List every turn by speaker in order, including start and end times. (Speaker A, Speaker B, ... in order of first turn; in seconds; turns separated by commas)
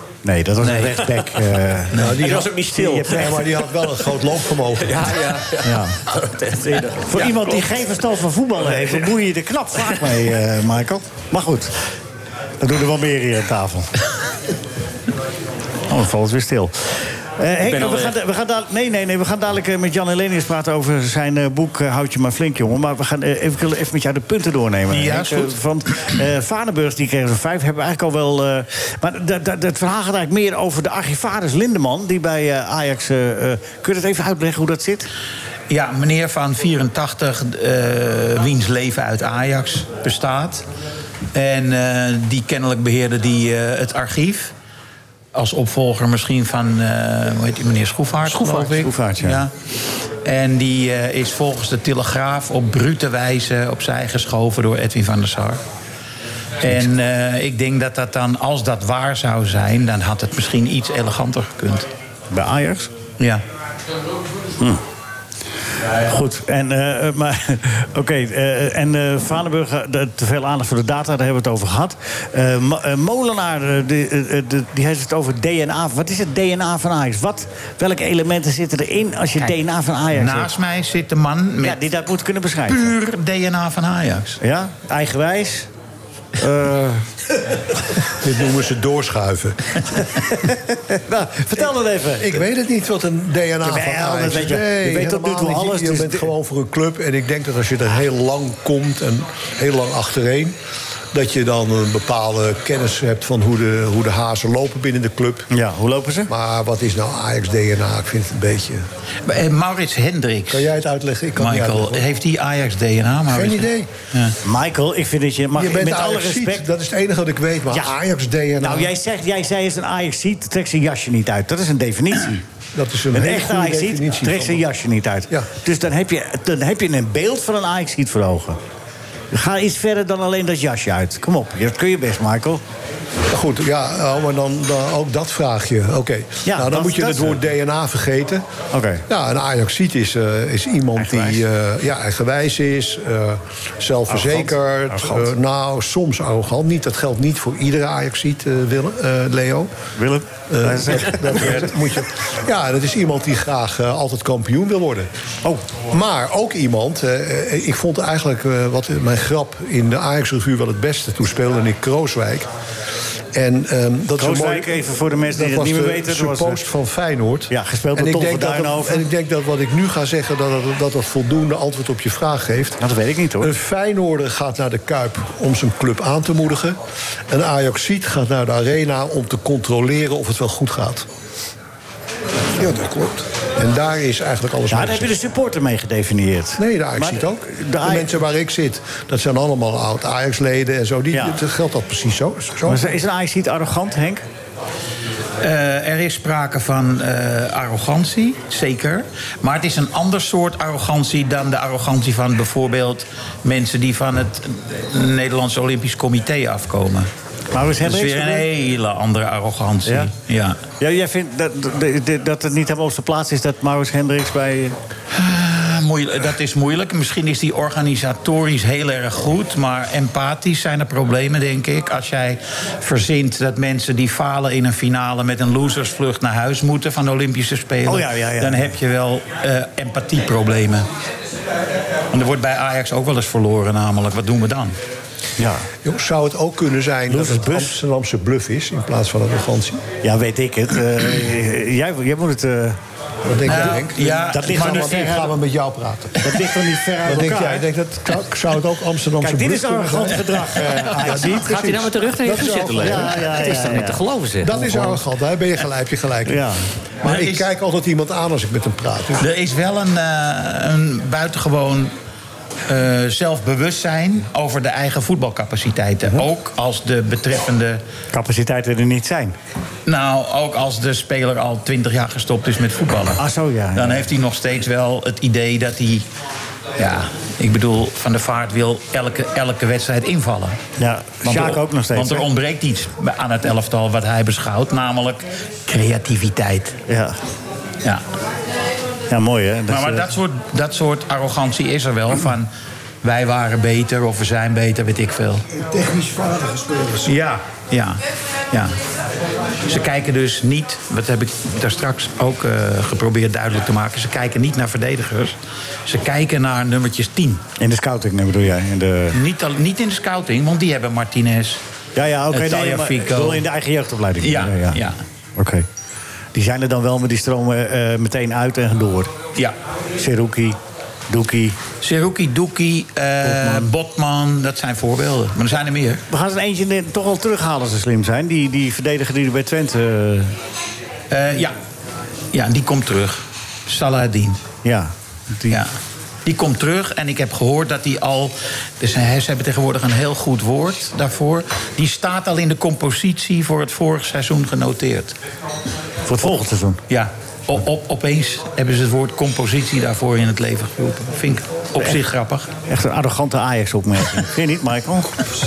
Speaker A: 0.2-2.0, Speaker B: 0.6-1.0, Speaker B: 1.9-2.3, Speaker C: 1.9-5.2, Speaker D: 2.1-3.5, Speaker A: 2.9-3.3, Speaker D: 4.8-7.7, Speaker A: 5.6-6.0, Speaker A: 7.0-11.8, Speaker D: 8.7-9.1, Speaker A: 12.6-13.9, Speaker A: 15.9-35.1, Speaker D: 17.6-18.1, Speaker B: 24.9-25.5, Speaker B: 35.7-40.6, Speaker B: 41.3-44.5, Speaker B: 45.3-49.5, Speaker A: 48.2-49.4, Speaker B: 50.2-55.6, Speaker B: 56.6-61.9, Speaker A: 62.3-62.9, Speaker A: 65.9-80.5, Speaker B: 80.1-81.8, Speaker A: 81.6-82.9, Speaker B: 82.7-84.4, Speaker A: 84.4-85.7, Speaker A: 86.4-87.0, Speaker C: 88.2-89.8, Speaker A: 90.4-92.4, Speaker C: 92.2-100.6, Speaker A: 93.6-96.3, Speaker C: 101.1-105.5, Speaker A: 105.5-106.3, Speaker C: 106.3-108.9, Speaker B: 109.3-110.7, Speaker C: 110.5-112.0, Speaker B: 111.4-114.4, Speaker C: 113.3-113.9, Speaker A: 114.4-116.7, Speaker C: 115.5-118.9, Speaker A: 118.6-122.4, Speaker C: 122.8-124.7, Speaker A: 123.1-128.6, Speaker A: 129.3-132.6, Speaker C: 133.3-138.4, Speaker A: 136.5-137.4, Speaker A: 138.7-139.0, Speaker C: 139.1-149.7, Speaker A: 141.0-141.4, Speaker A: 144.1-145.3, Speaker A: 150.0-151.7, Speaker C: 150.5-155.1, Speaker C: 155.9-162.5, Speaker C: 163.3-172.8, Speaker A: 164.2-166.6, Speaker A: 167.5-169.1, Speaker A: 172.8-173.5, Speaker C: 173.4-176.8, Speaker C: 177.3-181.1, Speaker E: 182.6-183.3, Speaker C: 183.6-185.1, Speaker A: 184.7-188.2, Speaker C: 186.6-192.9, Speaker A: 192.7-194.2, Speaker B: 195.4-207.1, Speaker A: 207.5-208.5, Speaker B: 207.8-210.6, Speaker A: 210.8-214.8, Speaker B: 215.1-230.9, Speaker A: 227.9-228.7, Speaker B: 232.1-234.8, Speaker A: 235.4-235.7, Speaker C: 235.8-239.8, Speaker A: 237.1-237.8, Speaker A: 240.0-242.8, Speaker C: 243.2-246.3, Speaker B: 243.4-245.2, Speaker A: 243.5-245.3, Speaker A: 246.2-247.7, Speaker C: 247.0-250.3, Speaker A: 249.2-251.6, Speaker C: 251.0-253.3, Speaker D: 251.1-254.7, Speaker A: 252.8-254.0, Speaker C: 254.4-256.5, Speaker A: 254.6-254.9, Speaker A: 256.3-256.6, Speaker C: 257.0-259.3, Speaker B: 257.0-257.5, Speaker B: 259.2-261.9, Speaker B: 262.7-267.8, Speaker A: 268.1-269.4, Speaker B: 269.9-273.2, Speaker A: 273.2-274.1, Speaker B: 273.8-276.1, Speaker B: 276.8-280.6, Speaker A: 280.8-282.3, Speaker B: 281.2-286.8, Speaker A: 286.9-287.2, Speaker A: 289.1-290.1, Speaker B: 289.7-292.5, Speaker B: 293.0-295.4, Speaker E: 295.5-297.1, Speaker B: 297.1-298.8, Speaker B: 299.7-305.4, Speaker B: 305.9-307.4, Speaker A: 307.6-309.2, Speaker B: 309.1-311.6, Speaker A: 312.0-314.8, Speaker B: 312.3-313.4, Speaker B: 314.2-315.0, Speaker A: 315.4-315.7, Speaker A: 316.3-319.1, Speaker A: 320.0-320.6, Speaker A: 321.1-321.6, Speaker B: 321.8-326.0, Speaker A: 323.2-323.7, Speaker A: 326.1-330.4, Speaker B: 331.1-331.6, Speaker B: 332.3-334.4, Speaker A: 334.6-335.6, Speaker B: 336.2-345.1, Speaker A: 346.1-346.8, Speaker B: 346.9-352.5, Speaker A: 352.7-355.2